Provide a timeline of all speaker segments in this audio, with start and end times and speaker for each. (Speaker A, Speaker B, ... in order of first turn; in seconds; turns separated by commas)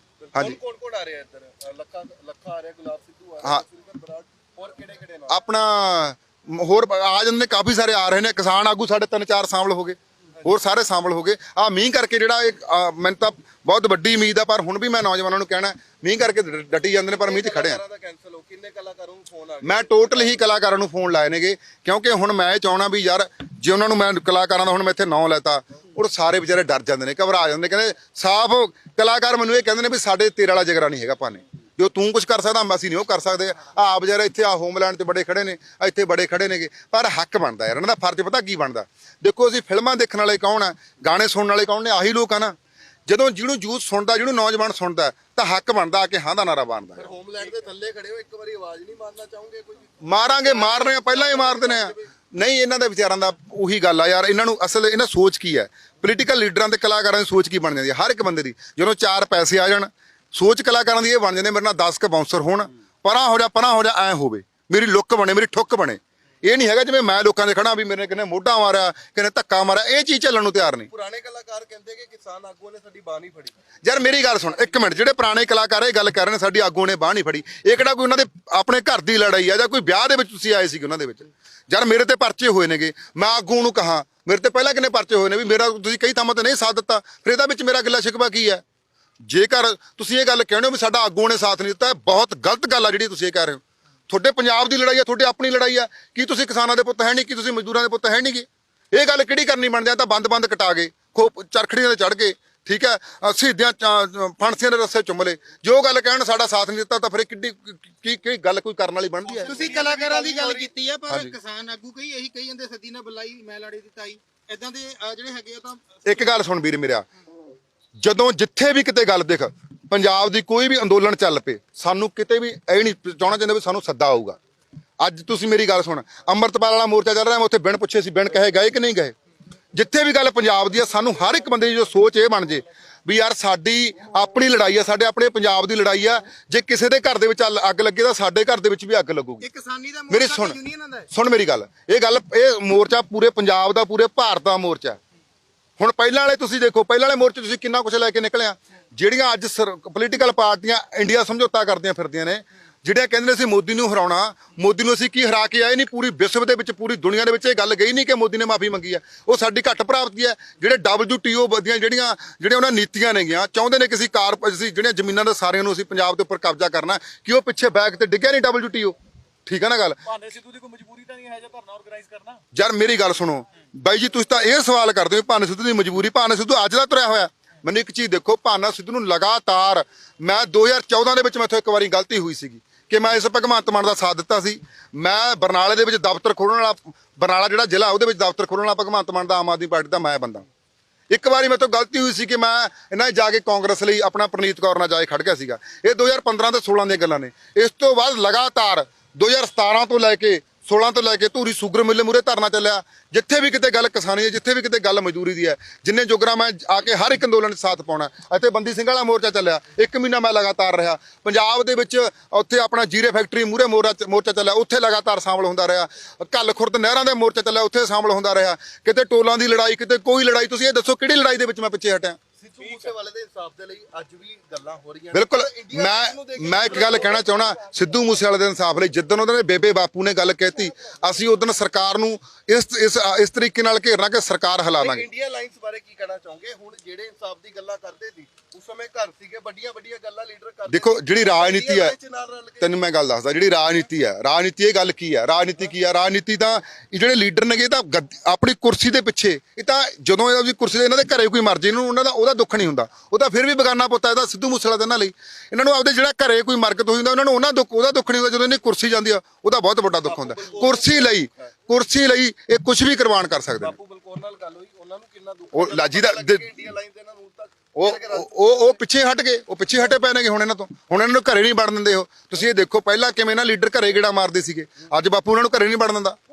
Speaker A: 0.2-5.4, Speaker B: 5.3-17.8, Speaker A: 17.0-20.4, Speaker B: 19.6-42.6, Speaker B: 43.1-47.1, Speaker A: 47.0-52.1, Speaker B: 50.0-70.9, Speaker A: 70.9-73.5, Speaker B: 73.8-88.6, Speaker B: 89.2-110.4, Speaker C: 109.4-115.9, Speaker A: 109.7-110.2, Speaker B: 111.1-111.4, Speaker B: 116.0-117.0, Speaker B: 118.0-124.4, Speaker B: 125.0-129.2, Speaker B: 129.7-139.5, Speaker C: 139.4-141.1, Speaker B: 140.1-145.0, Speaker B: 145.8-170.0, Speaker D: 170.1-172.4, Speaker B: 172.5-190.5, Speaker B: 191.1-222.2, Speaker A: 222.4-228.1, Speaker B: 225.1-235.1, Speaker A: 234.8-242.8, Speaker B: 240.7-241.9, Speaker B: 242.6-263.8, Speaker A: 260.0-261.5, Speaker A: 263.6-268.8, Speaker B: 265.5-266.4, Speaker B: 267.8-276.2